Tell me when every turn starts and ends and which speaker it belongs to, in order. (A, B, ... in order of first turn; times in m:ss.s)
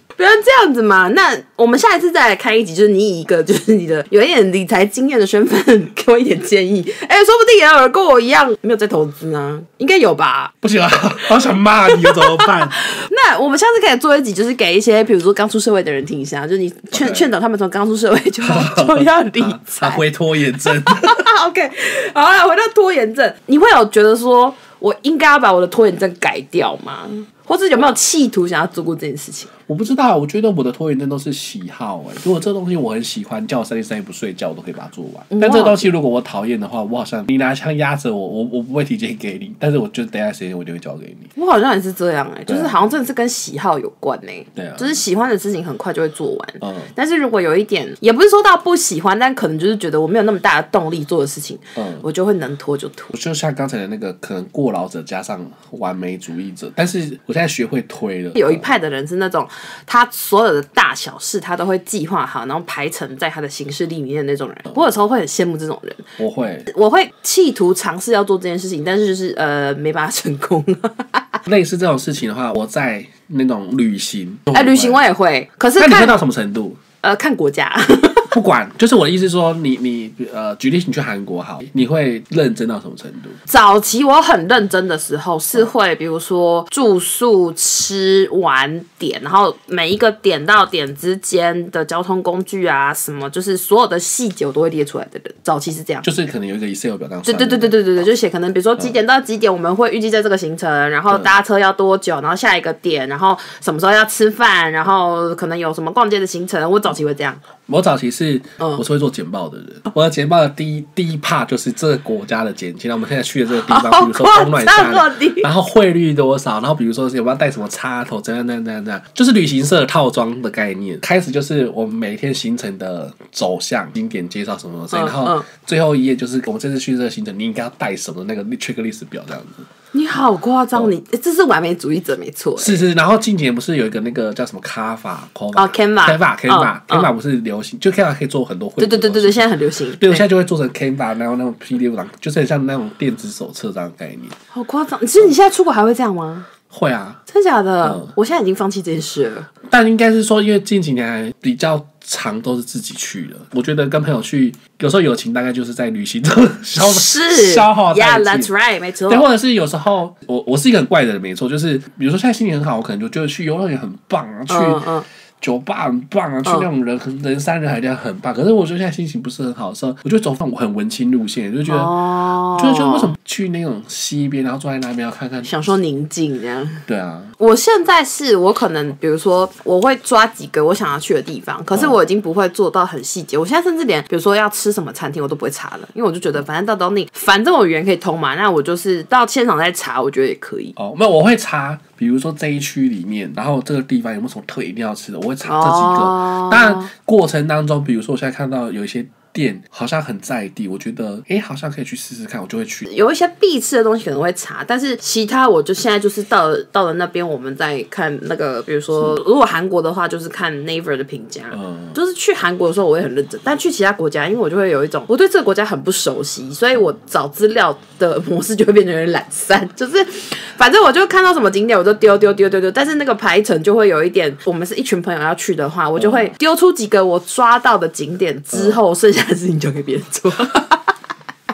0:00.2-0:10.5 A
0:10.6-0:12.8 B
0:11.9-0:20.0 A
0:16.9-0:17.3 B
0:18.5-0:21.2 B
0:20.8-0:29.5 A
0:29.7-0:41.3 B
0:35.3-0:35.8 A
0:41.4-0:53.1 A
0:42.5-0:42.8 B
0:44.6-0:45.0 B
0:46.6-0:46.9 B
0:51.8-0:52.0 B
0:53.1-0:58.7 B
0:58.3-1:06.1 A
1:06.2-1:06.7 B
1:06.7-1:11.2 A
1:11.4-1:15.0 B
1:14.5-1:16.2 A
1:15.8-1:16.8 B
1:17.0-1:18.3 A
1:18.3-1:23.4 B
1:23.5-1:36.0 A
1:36.0-1:38.1 B
1:37.2-1:47.4 A
1:41.1-1:41.4 B
1:47.7-2:09.7 B
1:53.7-1:55.5 A
2:04.9-2:05.4 A
2:09.9-2:12.8 A
2:12.6-2:24.4 B
2:15.5-2:17.1 A
2:18.8-2:20.2 A
2:24.5-2:26.5 A
2:26.7-2:27.2 B
2:27.3-2:29.5 A
2:27.8-2:28.1 B
2:29.7-2:38.5 B
2:36.8-2:39.2 A
2:39.1-2:44.8 B
2:44.5-2:45.0 A
2:45.4-2:51.9 B
2:51.7-2:53.1 A
2:52.5-2:55.5 B
2:55.4-2:56.8 A
2:56.9-2:57.3 B
2:57.4-3:10.7 A
3:10.8-3:22.9 B
3:15.4-3:16.9 A
3:22.9-3:50.9 A
3:31.5-3:32.0 B
3:46.0-3:46.3 B
3:48.5-3:48.8 B